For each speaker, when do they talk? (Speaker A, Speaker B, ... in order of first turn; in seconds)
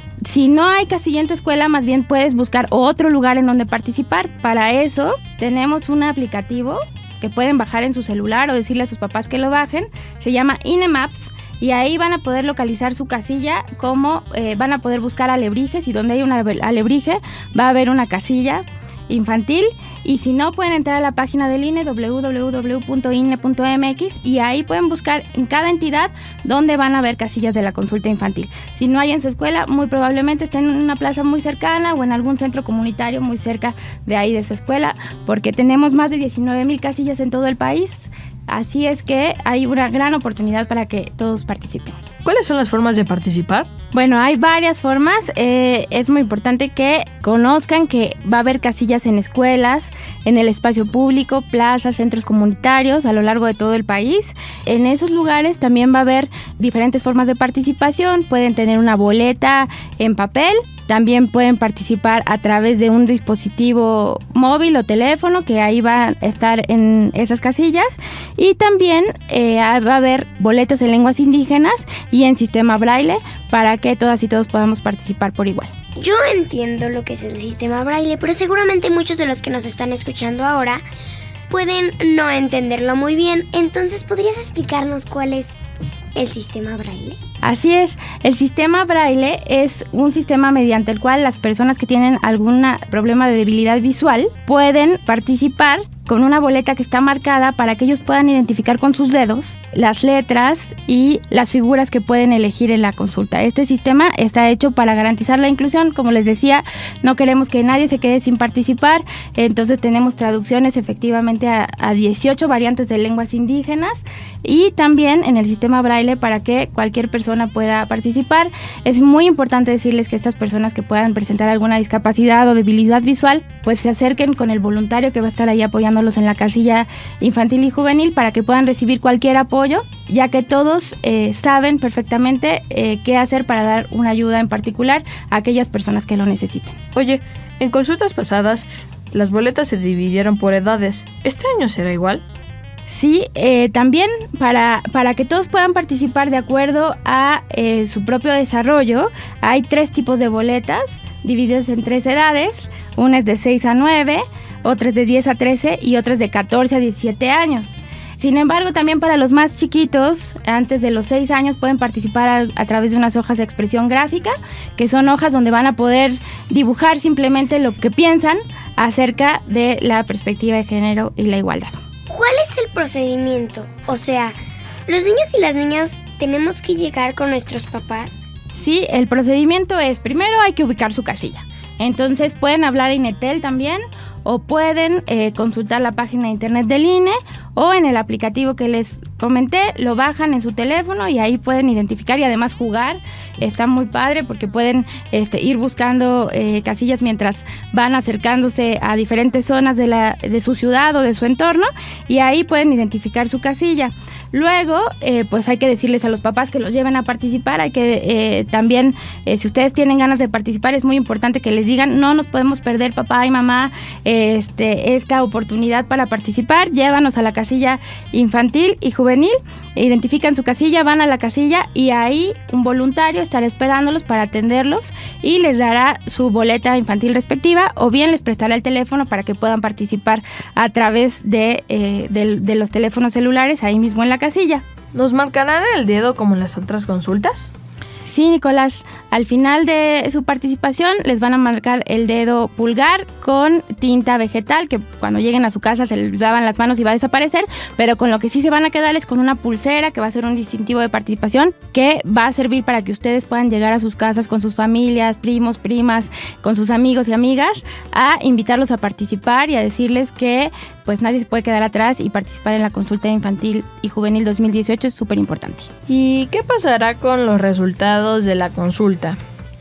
Speaker A: 0.3-42.0, 43.9-75.7, 87.4-136.8, 142.9-171.8, 178.5-234.6, 238.1-265.7
Speaker B: 42.2-43.7, 136.9-142.2, 234.9-237.5, 265.9-269.2
Speaker C: 76.0-80.8, 81.5-85.6, 86.2-87.2, 172.1-174.3, 174.9-178.2